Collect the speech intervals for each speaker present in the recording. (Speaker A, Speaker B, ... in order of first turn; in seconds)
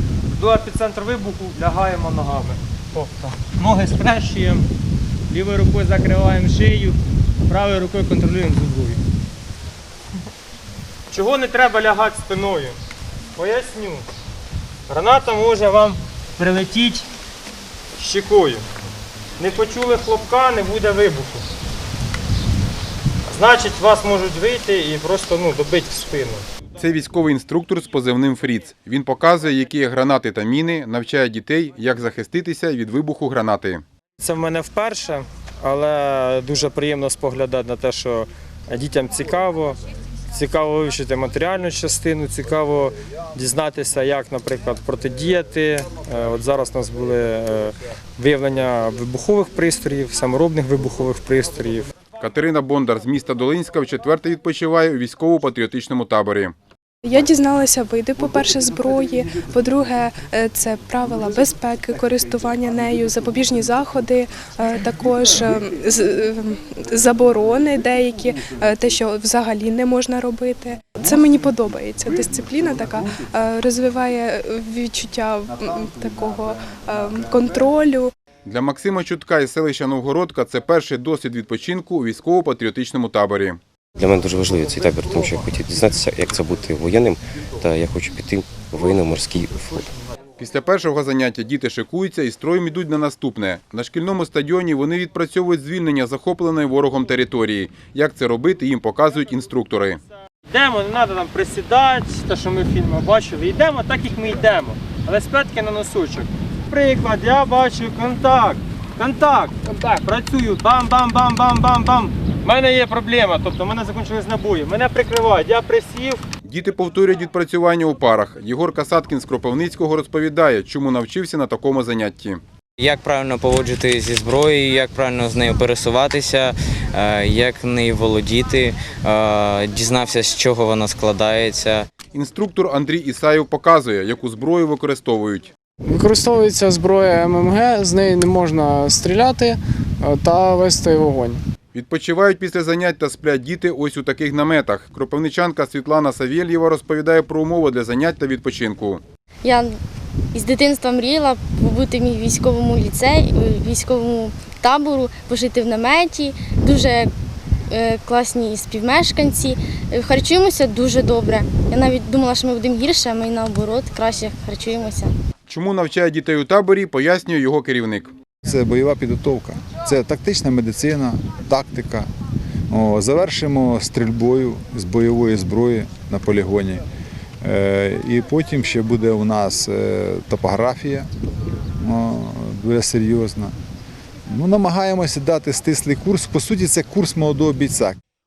Speaker A: 0.4-4.7, 5.3-9.0, 11.1-12.8, 13.4-14.1, 14.9-17.1, 18.0-18.6, 19.4-21.4, 23.3-26.4, 34.2-39.8, 40.3-51.9, 100.5-116.2
Speaker B: 26.8-33.8, 52.2-56.5, 78.5-83.6, 90.4-100.0, 116.5-122.4, 132.1-135.5, 141.7-149.0, 165.5-168.1
Speaker C: 57.0-78.1
Speaker D: 84.0-89.9
Speaker E: 122.8-131.9
Speaker F: 135.8-141.4
Speaker G: 149.4-149.7, 150.3-157.1, 157.7-165.1
Speaker H: 168.4-172.1, 172.7-176.8, 177.4-181.1, 181.8-183.5, 184.3-188.0